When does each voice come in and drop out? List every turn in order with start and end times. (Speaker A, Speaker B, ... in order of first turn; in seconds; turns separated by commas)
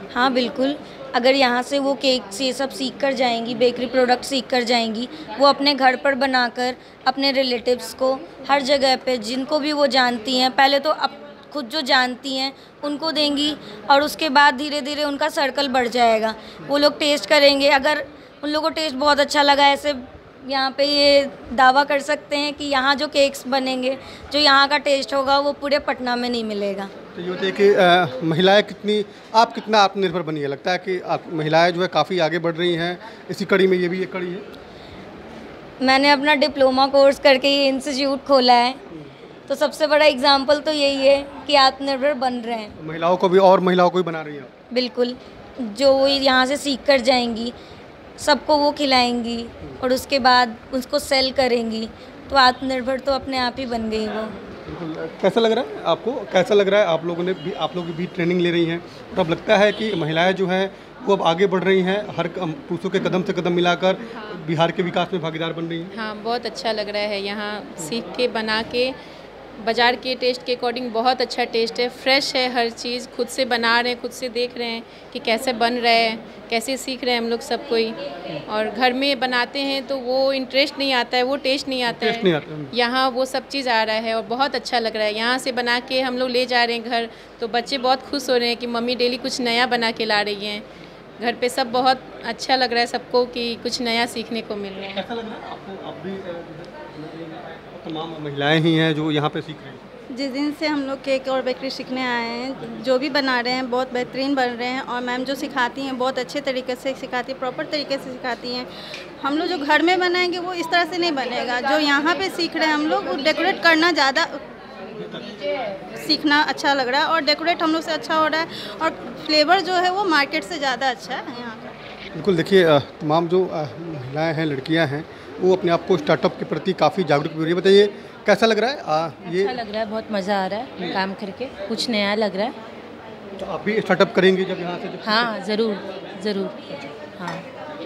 Speaker A: 0.1-26.9, Speaker B: 27.1-34.4, Speaker A: 35.8-38.8, Speaker A: 39.5-42.7, Speaker B: 42.8-44.5, Speaker A: 44.7-47.5, Speaker A: 48.2-54.3, Speaker B: 54.7-65.9, Speaker C: 65.9-68.9, Speaker C: 69.6-90.6, Speaker B: 81.9-82.7, Speaker C: 91.2-95.0, Speaker B: 94.9-99.8, Speaker D: 100.1-108.7, Speaker D: 109.2-114.4, Speaker B: 114.9-115.4, Speaker D: 116.0-121.7, Speaker B: 122.2-129.6, Speaker E: 129.3-132.5, Speaker B: 133.4-135.3, Speaker E: 135.0-137.4